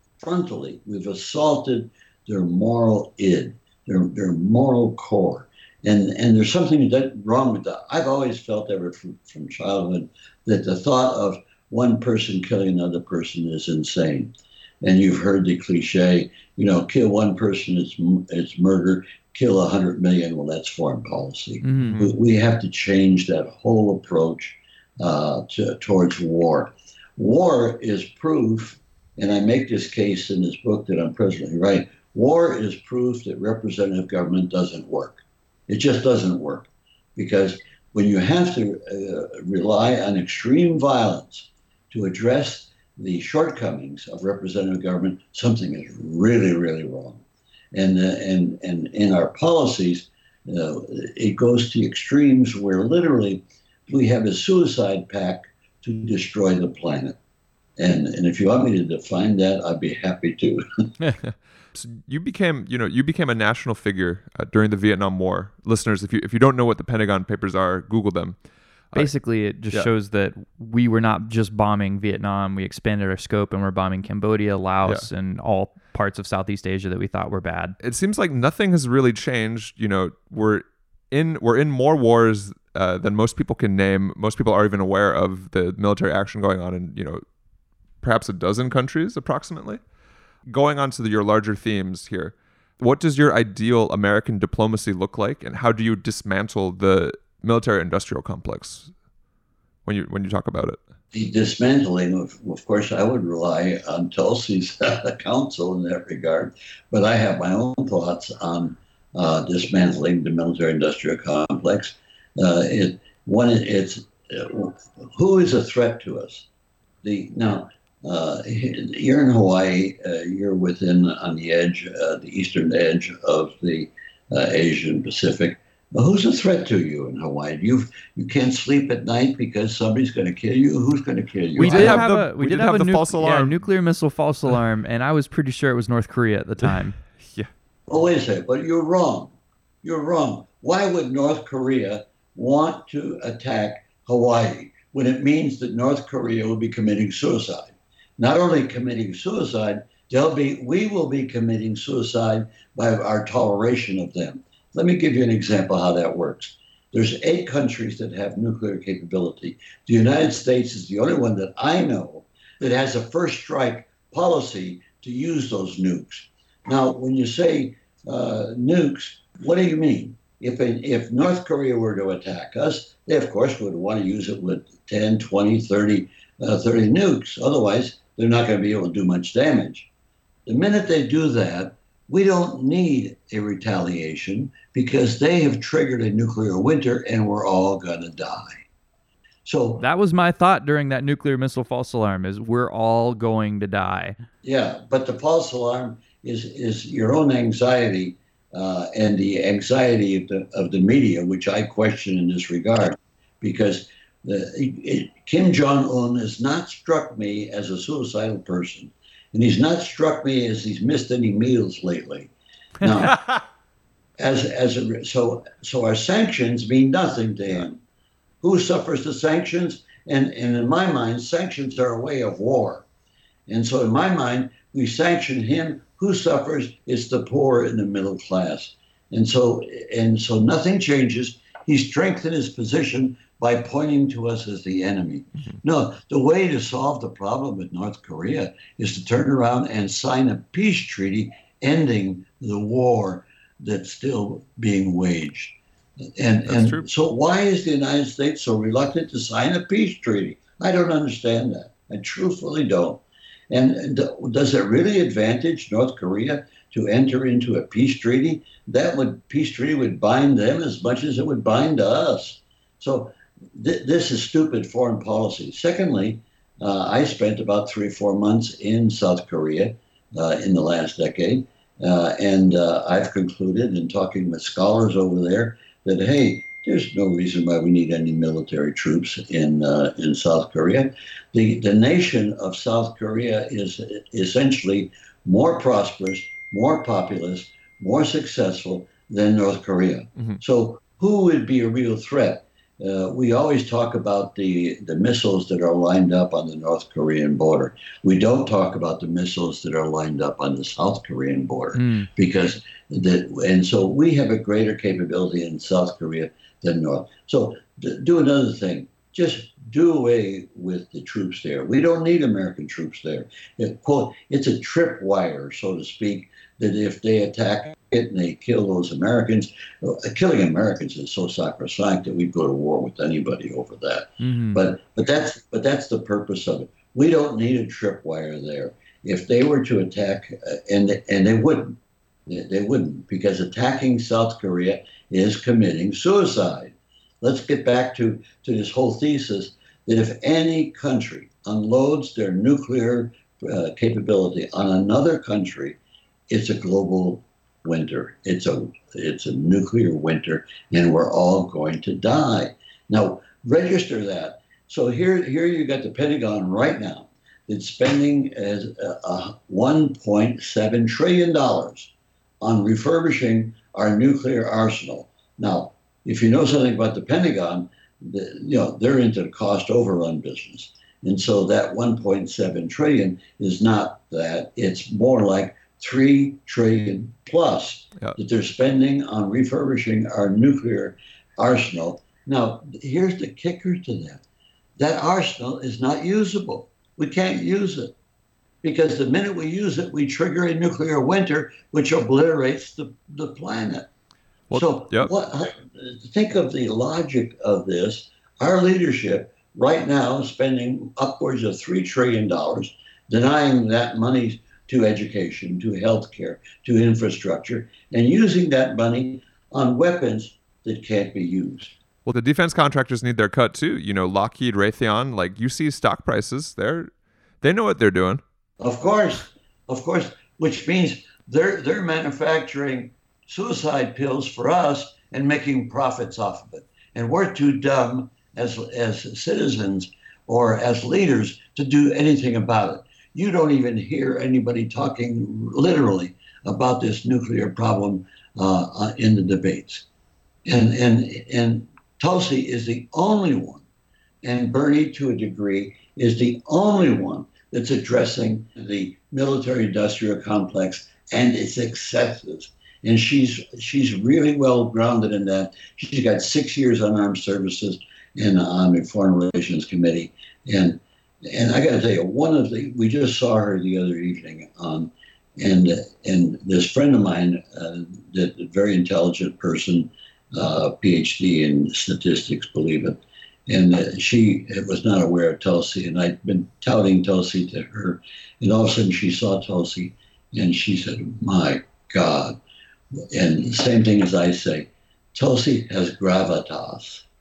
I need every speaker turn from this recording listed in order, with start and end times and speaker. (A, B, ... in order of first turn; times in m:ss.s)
0:00.2-0:57.2 A
0:21.6-0:22.0 B
0:21.8-0:22.1 C
0:57.8-1:00.6 A
1:01.7-1:08.4 C
1:08.9-1:17.8 B
1:17.8-1:27.2 C
1:28.0-1:29.8 C
1:30.5-1:38.9 C
1:39.8-1:40.8 C
1:41.1-1:56.5 A
1:57.0-2:12.0 A
2:11.6-2:17.0 B
2:11.6-2:13.6 C
2:16.6-2:17.5 C
2:17.9-2:59.9 A
3:00.4-3:08.6 A
3:09.4-3:09.8 A
3:09.8-3:14.2 B
3:14.4-3:32.3 A
3:32.8-3:33.2 A
3:34.2-3:37.8 A
3:38.4-3:42.8 A
3:43.5-4:05.6 A
4:06.2-5:45.8 A
4:06.4-4:06.8 C
5:01.7-5:02.1 B
5:24.2-5:24.6 B
5:46.3-6:24.2 A
6:24.8-6:27.9 A
6:28.6-6:33.9 A
6:34.5-6:35.1 C
6:34.5-6:51.8 A
6:52.0-6:56.9 C
6:57.4-6:58.2 C
6:58.6-7:19.8 A
7:20.4-7:23.6 A
7:24.2-8:02.4 A
8:03.1-8:07.0 A